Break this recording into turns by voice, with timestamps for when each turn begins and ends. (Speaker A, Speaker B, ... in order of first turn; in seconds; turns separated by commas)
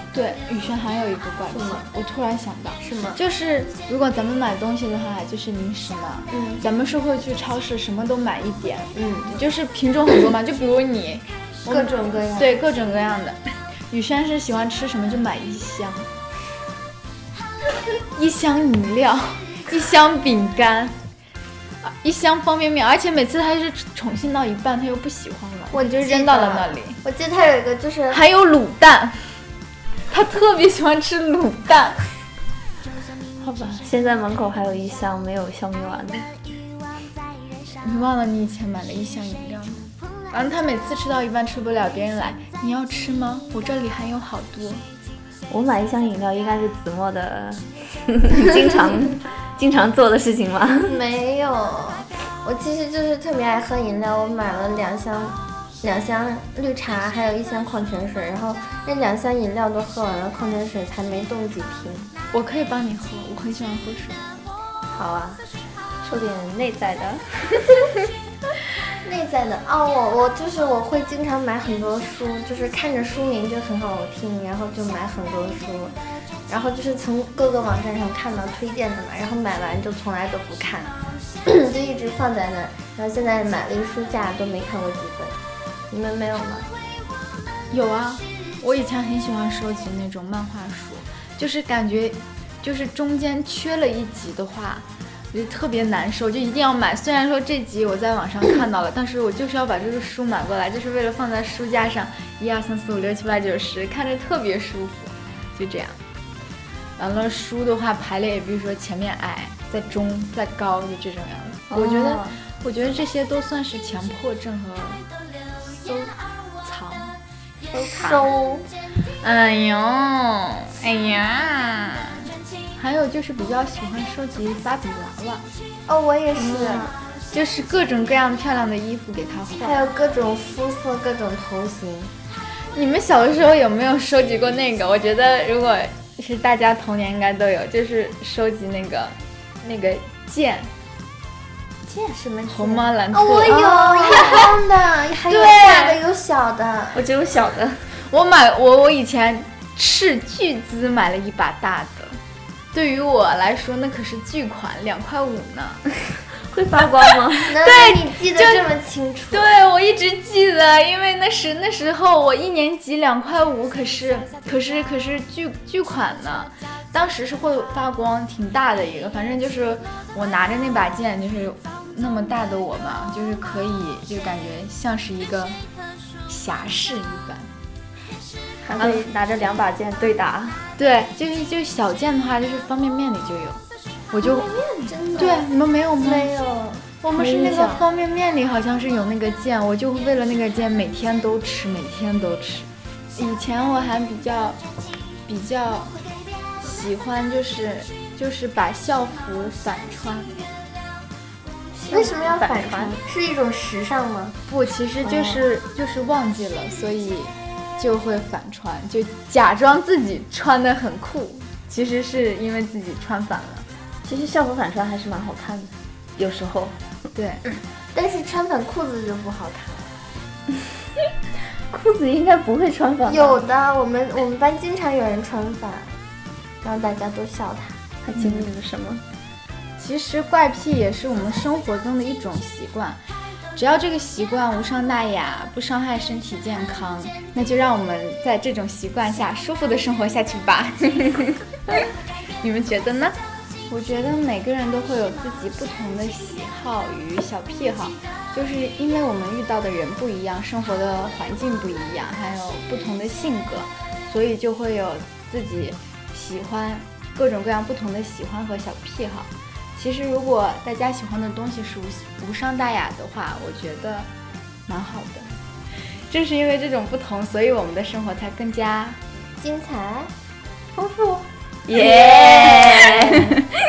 Speaker A: 0.1-13.4, Speaker B: 1.5-1.9, Speaker B: 2.8-3.2, Speaker B: 6.3-6.6, Speaker B: 8.9-9.4, Speaker B: 11.7-12.6, Speaker A: 13.9-16.1, Speaker A: 18.1-20.9, Speaker A: 21.8-27.0, Speaker B: 25.7-28.2, Speaker A: 28.1-29.4, Speaker A: 30.1-32.0, Speaker C: 33.4-36.3, Speaker A: 37.8-44.9, Speaker C: 45.5-51.0, Speaker B: 50.9-62.1, Speaker A: 62.3-64.2, Speaker C: 64.9-65.4, Speaker C: 66.0-67.6, Speaker B: 69.0-76.0, Speaker B: 76.5-85.4, Speaker B: 85.9-86.7, Speaker A: 87.7-106.0, Speaker A: 107.0-115.0, Speaker C: 111.7-112.4, Speaker A: 115.8-117.2, Speaker B: 117.7-118.7, Speaker A: 117.8-118.3, Speaker A: 119.2-125.5, Speaker B: 125.9-126.9, Speaker C: 126.4-126.8, Speaker A: 126.5-126.8, Speaker A: 127.3-129.9, Speaker B: 129.6-132.1, Speaker A: 132.7-140.7, Speaker B: 141.9-147.0, Speaker A: 142.5-144.5, Speaker C: 143.4-144.4, Speaker A: 145.3-145.9, Speaker C: 146.9-147.9, Speaker A: 148.0-152.2, Speaker A: 152.7-155.8, Speaker C: 156.4-157.6, Speaker B: 157.5-159.5, Speaker A: 157.6-158.7, Speaker A: 159.3-175.6, Speaker A: 176.3-177.5, Speaker C: 178.6-180.7, Speaker A: 178.8-179.1, Speaker A: 180.8-183.6, Speaker A: 184.1-184.5, Speaker B: 184.2-186.9, Speaker A: 185.2-186.3, Speaker A: 187.0-194.6, Speaker C: 187.2-187.8, Speaker A: 195.3-196.0, Speaker A: 196.6-200.3, Speaker C: 201.7-203.0, Speaker B: 201.9-204.4, Speaker A: 204.5-213.7, Speaker C: 205.1-205.4, Speaker C: 214.0-216.8, Speaker A: 217.1-217.4, Speaker B: 217.9-219.9, Speaker C: 221.7-223.4, Speaker B: 223.1-225.9, Speaker B: 226.6-227.8, Speaker C: 228.0-229.0, Speaker A: 228.2-228.4, Speaker A: 229.8-233.0, Speaker A: 233.6-241.4, Speaker A: 242.4-243.2, Speaker A: 243.7-264.1, Speaker A: 264.7-265.3, Speaker A: 265.9-269.0, Speaker B: 269.4-270.1, Speaker C: 270.8-273.3, Speaker A: 271.7-273.1